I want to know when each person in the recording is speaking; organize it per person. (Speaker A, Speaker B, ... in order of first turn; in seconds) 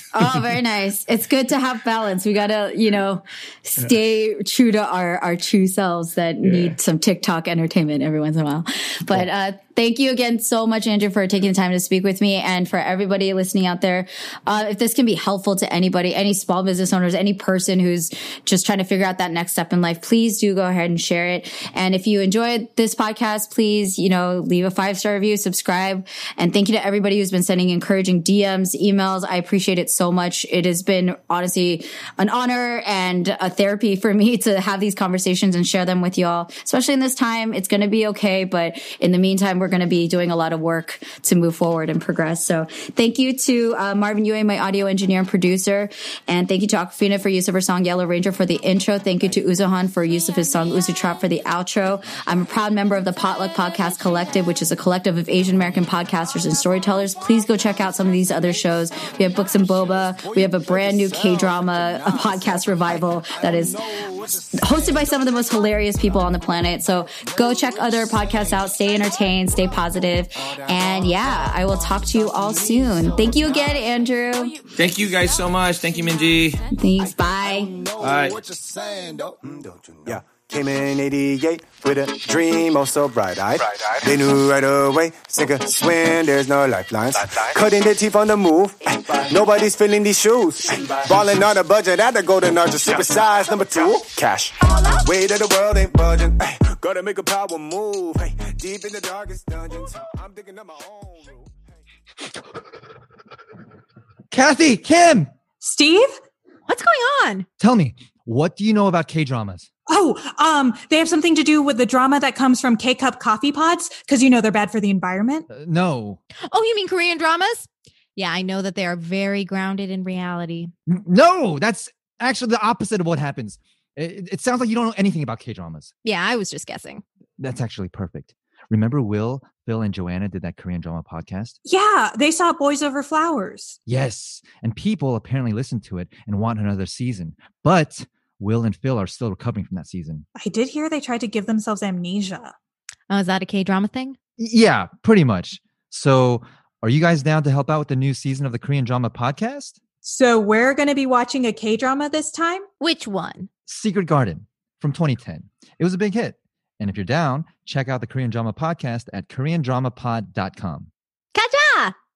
Speaker A: 0.1-63.8, 64.5-74.5, 76.8-77.8
Speaker B: 6.4-6.8, 74.8-76.6, 78.0-78.4
Speaker C: 63.9-64.6, 77.7-101.5
Speaker D: 104.3-105.3, 107.6-109.7, 115.5-116.2, 120.9-125.9, 127.4-131.6, 133.9-140.3, 144.4-149.8, 153.7-160.9
Speaker E: 105.6-106.2, 109.9-115.5, 131.7-133.8, 140.3-142.6, 150.0-152.7
Speaker F: 106.7-107.5, 116.5-120.7, 126.0-127.0, 143.1-144.2, 152.8-153.5, 161.3-161.9